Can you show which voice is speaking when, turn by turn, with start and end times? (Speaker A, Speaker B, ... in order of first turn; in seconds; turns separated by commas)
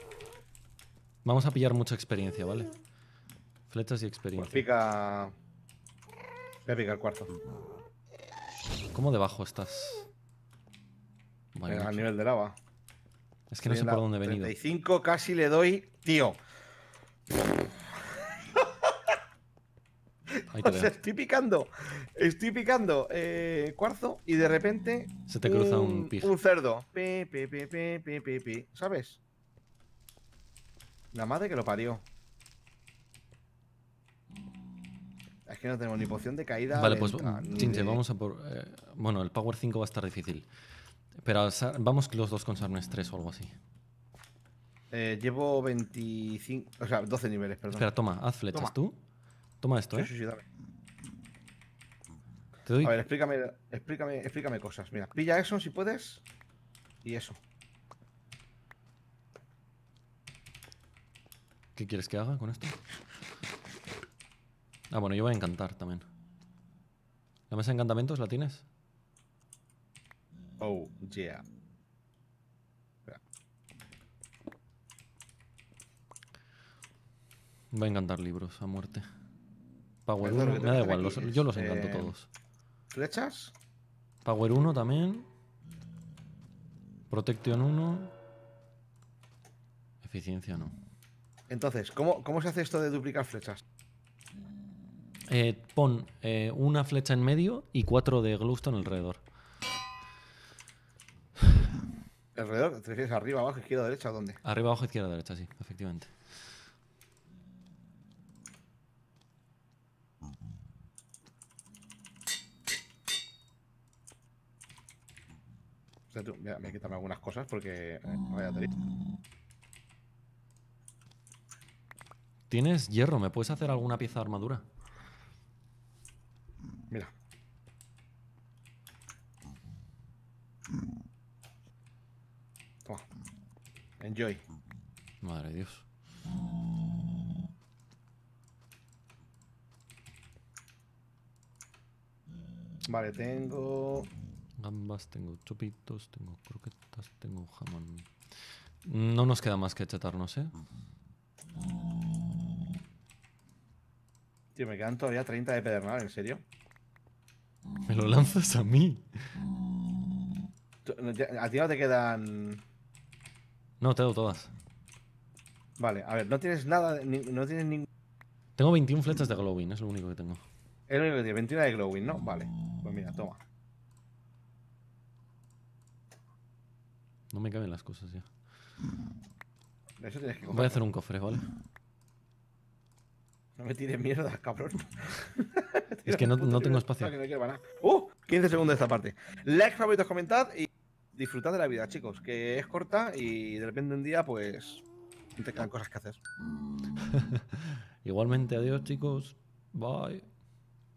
Speaker A: 1.2-2.7, Speaker A: 3.7-4.7, Speaker B: 4.4-5.3, Speaker B: 6.7-7.3, Speaker A: 8.9-10.1, Speaker A: 11.5-12.1, Speaker B: 11.7-12.6, Speaker A: 13.5-14.5, Speaker B: 13.7-16.4, Speaker B: 18.1-19.2, Speaker B: 20.3-29.2, Speaker A: 20.5-21.0, Speaker A: 25.3-26.3, Speaker B: 31.1-32.0, Speaker B: 35.5-38.0, Speaker A: 36.7-40.5, Speaker A: 41.2-43.6, Speaker B: 44.9-47.9, Speaker A: 47.7-49.0, Speaker A: 49.6-50.1, Speaker B: 49.9-50.4, Speaker A: 52.7-53.0, Speaker B: 52.8-56.2, Speaker B: 57.0-57.4, Speaker A: 61.8-62.8, Speaker A: 64.9-66.1, Speaker A: 67.5-68.7, Speaker B: 70.6-71.5, Speaker A: 77.7-79.1, Speaker A: 80.1-82.3, Speaker B: 80.2-82.2, Speaker B: 82.9-83.5, Speaker A: 84.2-85.3, Speaker A: 87.1-88.1, Speaker A: 90.0-90.8, Speaker B: 91.5-93.6, Speaker A: 95.3-99.2, Speaker B: 102.3-104.4, Speaker A: 104.4-106.3, Speaker B: 116.1-118.8, Speaker A: 122.5-124.6, Speaker B: 134.0-134.4, Speaker A: 135.2-135.8, Speaker B: 142.9-144.1, Speaker A: 144.6-148.1, Speaker A: 148.8-150.5, Speaker B: 154.6-156.4, Speaker A: 157.8-159.1, Speaker B: 160.8-162.6, Speaker A: 163.8-164.5, Speaker B: 165.8-167.9, Speaker A: 168.6-170.4, Speaker B: 170.9-173.4, Speaker A: 177.3-178.3, Speaker B: 180.0-180.8, Speaker A: 180.5-181.5, Speaker B: 183.6-194.8, Speaker A: 186.1-187.1, Speaker B: 195.4-196.2, Speaker A: 197.0-200.3